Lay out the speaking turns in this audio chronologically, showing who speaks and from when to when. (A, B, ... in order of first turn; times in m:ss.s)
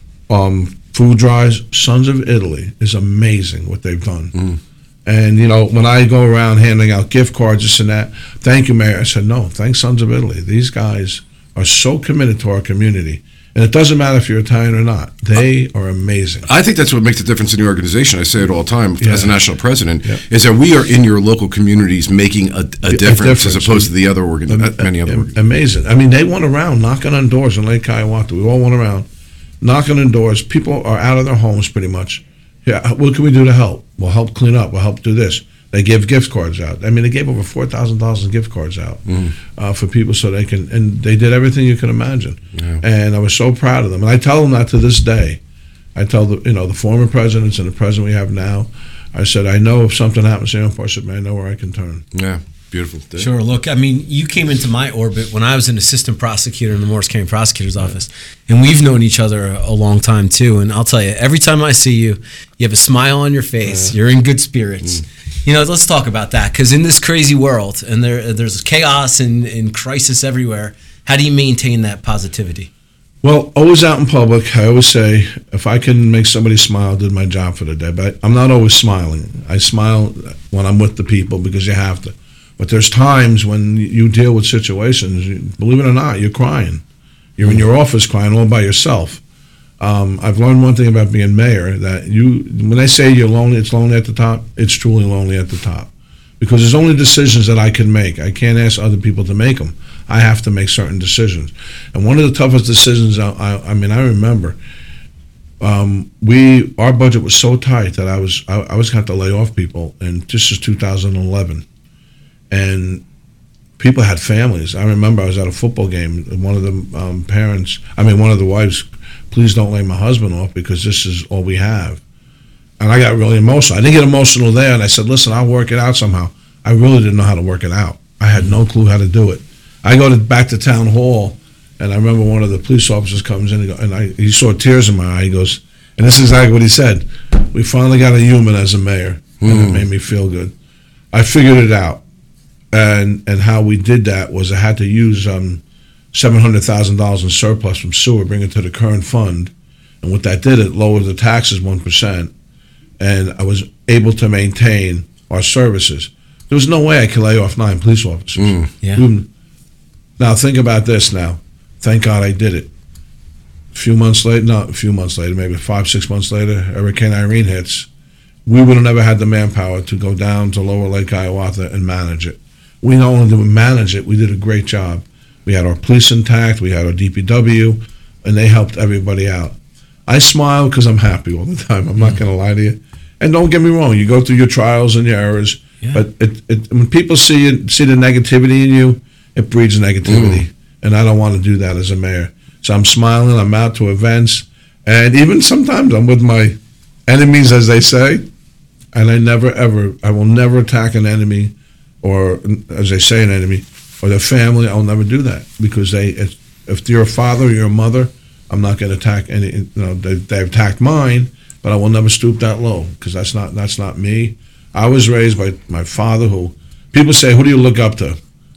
0:00.3-0:04.4 A
0:05.0-0:16.5 A
0:16.5-0:25.3 B
0:19.0-0:19.3 A
0:22.9-0:23.9 A
0:24.5-0:29.1 A
0:29.6-0:45.4 A
0:39.1-0:39.4 B
0:42.6-0:42.8 B
0:46.0-0:52.0 A
0:52.1-0:53.3 B
0:53.2-1:12.7 C
1:13.2-1:26.8 A
1:27.4-1:29.2 A
1:29.8-1:44.6 A
1:45.6-1:51.7 A
1:52.5-1:53.0 A
1:53.8-2:02.0 A
2:02.8-2:20.5 A
2:19.4-2:19.8 B
2:21.1-2:22.0 A
2:22.7-2:32.3 A
2:33.0-2:39.3 A
2:38.4-2:38.7 B
2:40.2-2:42.7 A
2:43.7-2:47.9 A
2:48.4-3:18.3 A
3:10.1-3:10.4 B
3:18.9-3:38.2 A